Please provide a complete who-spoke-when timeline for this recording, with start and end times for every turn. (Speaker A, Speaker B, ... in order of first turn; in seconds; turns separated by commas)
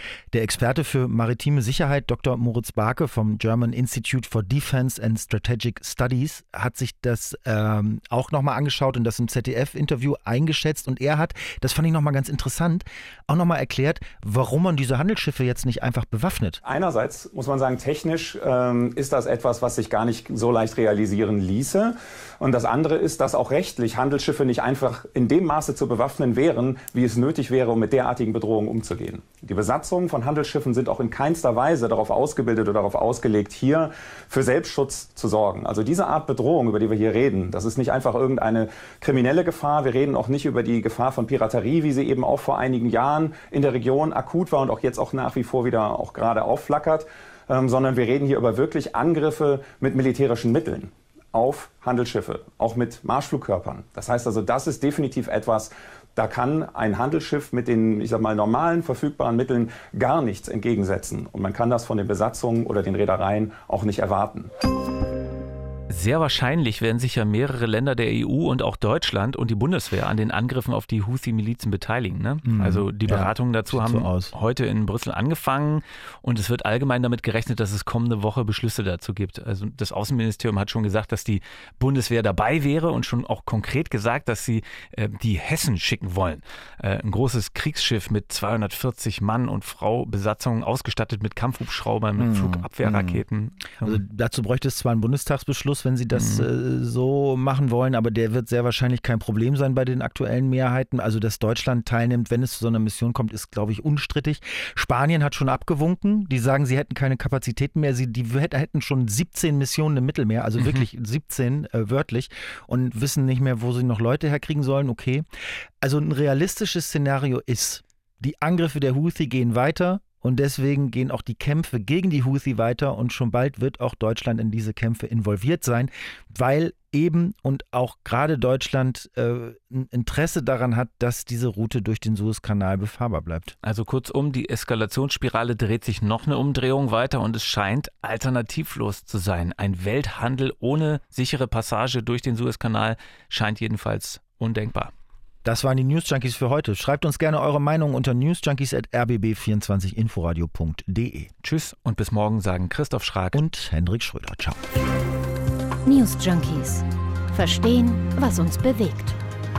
Speaker A: 0.3-16.6, Speaker B: 16.6-64.5, Speaker C: 65.9-94.0, Speaker A: 72.4-74.3, Speaker A: 92.2-93.2, Speaker A: 93.8-115.2, Speaker C: 96.1-96.5, Speaker C: 110.6-110.8, Speaker A: 115.8-133.5, Speaker C: 133.6-144.9, Speaker A: 145.4-151.3, Speaker C: 151.4-153.5, Speaker A: 153.3-154.6, Speaker D: 155.8-159.2